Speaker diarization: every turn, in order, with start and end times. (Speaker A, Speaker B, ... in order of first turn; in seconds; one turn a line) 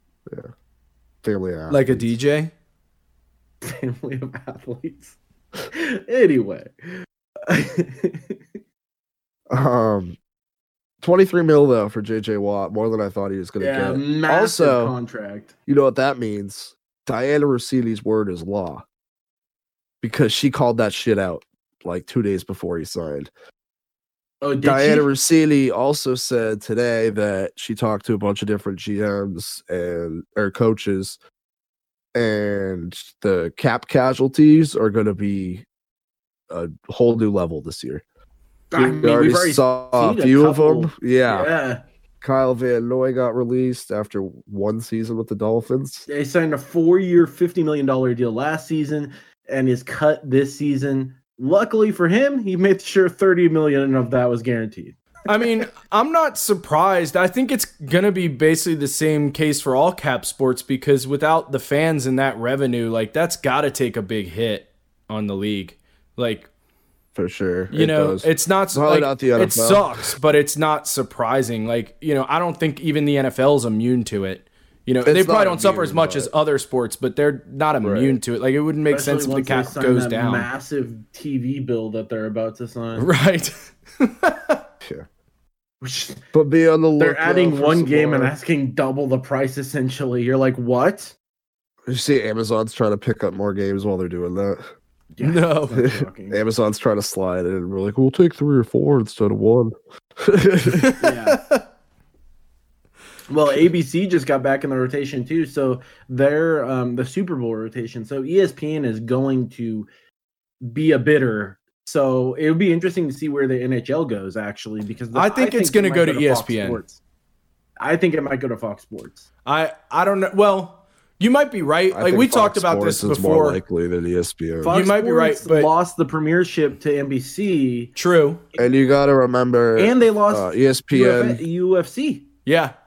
Speaker A: 1.2-2.1
Speaker B: 1.7-2.5
Speaker C: 3.6-5.1
Speaker C: 5.7-6.7
Speaker C: 7.5-8.4
Speaker A: 9.5-10.2
Speaker A: 11.0-14.9
Speaker C: 13.6-15.5
Speaker A: 15.7-18.8
Speaker A: 20.0-23.3
Speaker C: 24.4-25.1
Speaker A: 24.6-31.2
Speaker A: 32.1-35.6
Speaker A: 36.5-38.0
Speaker C: 38.7-41.8
Speaker A: 38.7-41.5
Speaker A: 42.2-46.1
Speaker C: 46.1-55.0
Speaker B: 55.2-66.5
Speaker A: 67.1-70.1
Speaker B: 67.7-80.5
Speaker A: 75.0-76.3
Speaker A: 77.8-78.2
Speaker C: 78.9-83.1
Speaker B: 83.0-84.6
Speaker C: 85.8-86.2
Speaker A: 86.3-88.3
Speaker C: 87.0-91.1
Speaker A: 91.9-94.6
Speaker C: 95.1-96.4
Speaker B: 95.2-95.8
Speaker A: 95.7-100.9
Speaker B: 100.7-101.6
Speaker C: 101.0-101.4
Speaker C: 103.3-109.9
Speaker C: 110.6-117.0
Speaker B: 115.1-116.8
Speaker C: 117.8-119.3
Speaker B: 119.5-123.6
Speaker A: 121.9-124.8
Speaker C: 124.6-127.9
Speaker B: 124.7-125.7
Speaker B: 128.0-128.4
Speaker A: 128.6-131.4
Speaker C: 129.8-132.3
Speaker B: 132.4-132.7